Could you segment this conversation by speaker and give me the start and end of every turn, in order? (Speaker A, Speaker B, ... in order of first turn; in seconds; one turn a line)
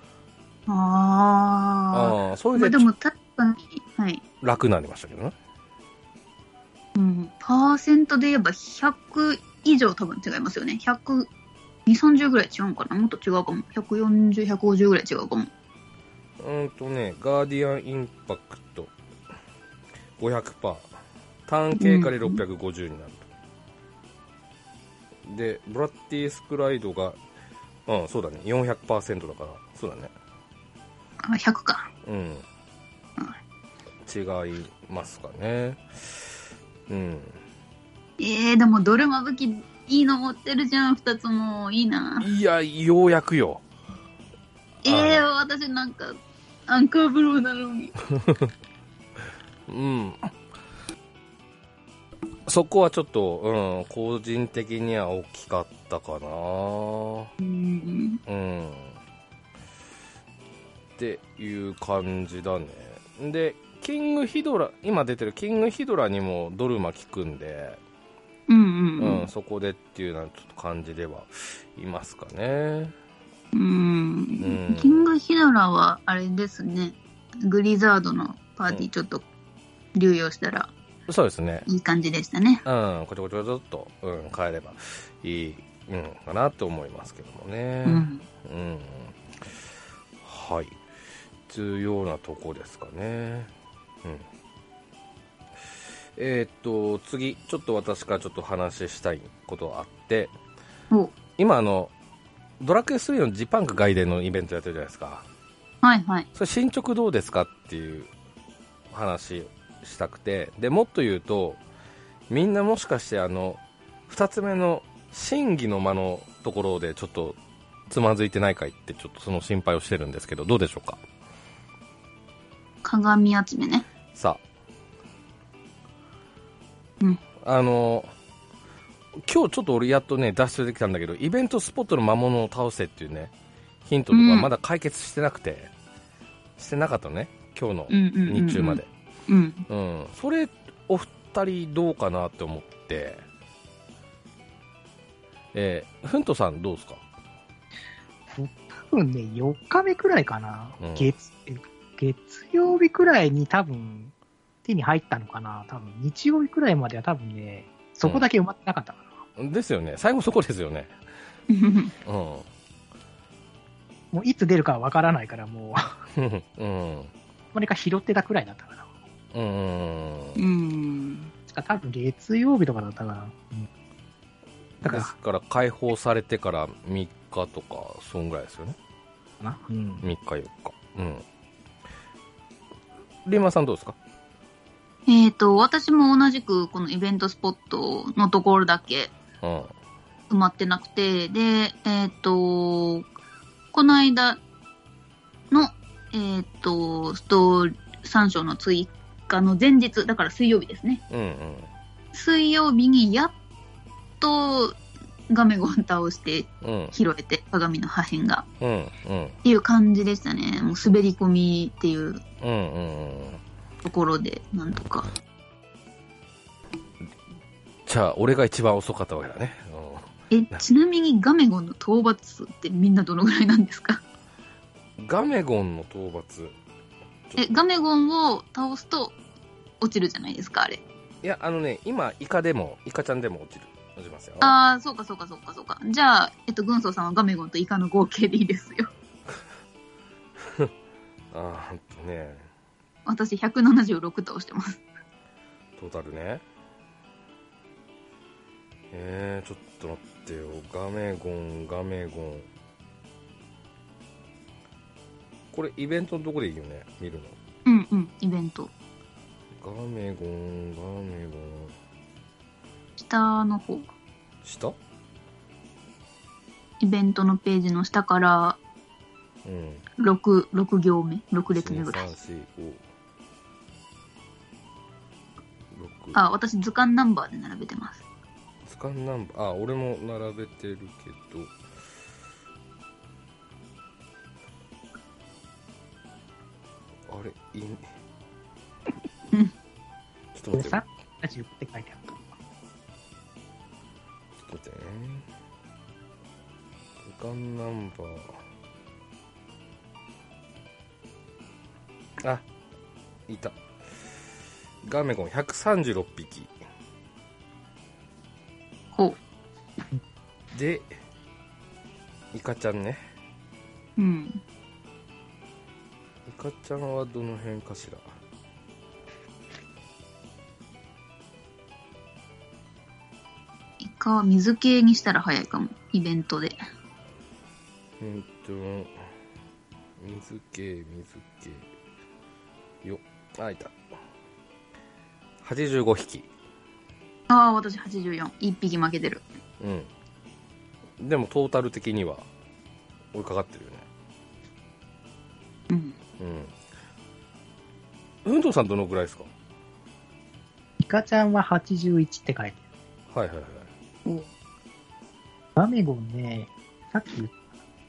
Speaker A: 0.7-4.2
Speaker B: 1.9-2.9
Speaker B: 4.4-5.3
Speaker A: 7.0-11.3
Speaker A: 11.9-15.5
Speaker B: 16.4-18.9
Speaker B: 20.2-20.9
Speaker B: 21.5-23.3
Speaker A: 21.8-22.4
Speaker B: 25.3-27.2
Speaker B: 27.9-30.1
Speaker A: 31.2-31.9
Speaker B: 32.0-32.5
Speaker B: 34.0-35.9
Speaker B: 36.9-37.4
Speaker A: 38.2-42.3
Speaker B: 42.2-43.6
Speaker B: 44.8-45.2
Speaker A: 44.8-46.2
Speaker A: 46.7-48.0
Speaker B: 49.7-50.3
Speaker B: 52.5-57.3
Speaker A: 57.4-58.2
Speaker B: 58.3-59.0
Speaker B: 61.0-67.8
Speaker A: 68.5-69.3
Speaker B: 69.0-73.0
Speaker A: 73.5-79.2
Speaker B: 74.4-75.1
Speaker A: 80.0-80.7
Speaker B: 81.1-81.7
Speaker A: 81.7-82.6
Speaker B: 82.7-89.1
Speaker A: 87.8-88.2
Speaker B: 90.2-90.8
Speaker B: 91.5-93.5
Speaker B: 96.2-100.3
Speaker B: 101.4-101.9
Speaker B: 102.6-105.2
Speaker A: 105.8-106.3
Speaker B: 106.3-108.1
Speaker B: 108.9-111.6
Speaker B: 112.3-117.4
Speaker B: 117.9-121.0
Speaker A: 122.8-123.9
Speaker B: 124.1-124.4
Speaker B: 127.4-128.1
Speaker B: 129.2-133.3
Speaker B: 133.8-135.7
Speaker A: 134.1-134.5
Speaker B: 136.6-138.9
Speaker A: 137.9-139.7
Speaker B: 139.7-143.2
Speaker B: 145.5-147.0
Speaker C: 148.3-154.1
Speaker B: 150.8-151.1
Speaker C: 154.7-159.1
Speaker B: 159.4-160.9
Speaker A: 161.5-161.9
Speaker B: 162.1-162.5
Speaker C: 164.1-166.0
Speaker B: 166.2-167.1
Speaker C: 167.5-168.9
Speaker B: 169.3-170.4
Speaker A: 170.4-171.3
Speaker C: 171.5-173.7
Speaker C: 174.8-175.1
Speaker B: 174.8-178.8
Speaker C: 179.4-180.1
Speaker B: 180.0-181.2
Speaker B: 183.2-184.0
Speaker A: 185.1-189.1
Speaker B: 189.4-189.7
Speaker A: 190.3-193.1
Speaker A: 193.7-194.4
Speaker A: 195.5-201.0
Speaker B: 201.1-201.7
Speaker A: 202.1-203.3
Speaker A: 204.2-204.8
Speaker A: 205.3-208.5
Speaker B: 206.6-206.9
Speaker B: 208.6-209.4
Speaker A: 209.4-212.2
Speaker B: 212.4-213.4
Speaker A: 213.8-215.1
Speaker B: 217.9-220.6
Speaker A: 220.3-224.0
Speaker B: 225.0-226.6
Speaker B: 227.3-227.6
Speaker A: 227.4-229.2
Speaker A: 229.8-230.8
Speaker B: 231.2-234.6
Speaker A: 234.4-238.9
Speaker B: 240.4-240.7
Speaker B: 241.3-242.5
Speaker A: 243.1-244.8
Speaker B: 245.8-246.4
Speaker B: 248.9-252.5
Speaker B: 255.5-257.4
Speaker A: 257.7-258.7
Speaker B: 259.6-261.7
Speaker A: 263.0-263.9
Speaker B: 264.4-264.8
Speaker A: 266.8-268.6
Speaker B: 269.4-269.8
Speaker A: 270.0-272.1
Speaker B: 271.5-272.8
Speaker B: 275.7-276.2
Speaker A: 276.1-278.0
Speaker B: 278.7-281.5
Speaker B: 287.1-287.8
Speaker B: 290.3-290.8
Speaker C: 290.5-292.3
Speaker B: 294.4-295.2
Speaker B: 297.0-298.4
Speaker B: 303.3-303.6
Speaker B: 304.9-306.5
Speaker B: 310.5-310.9
Speaker B: 312.3-313.0
Speaker A: 314.0-314.4
Speaker B: 316.3-318.0
Speaker A: 323.8-326.6
Speaker B: 328.0-328.9
Speaker B: 330.0-331.7
Speaker B: 332.8-333.8
Speaker B: 335.4-336.3
Speaker A: 337.3-339.2
Speaker B: 339.6-339.9
Speaker B: 341.0-342.3
Speaker B: 343.1-343.9
Speaker A: 345.7-346.0
Speaker B: 346.2-346.5
Speaker B: 348.2-349.3
Speaker C: 350.8-352.6
Speaker B: 353.1-353.7
Speaker C: 355.6-357.4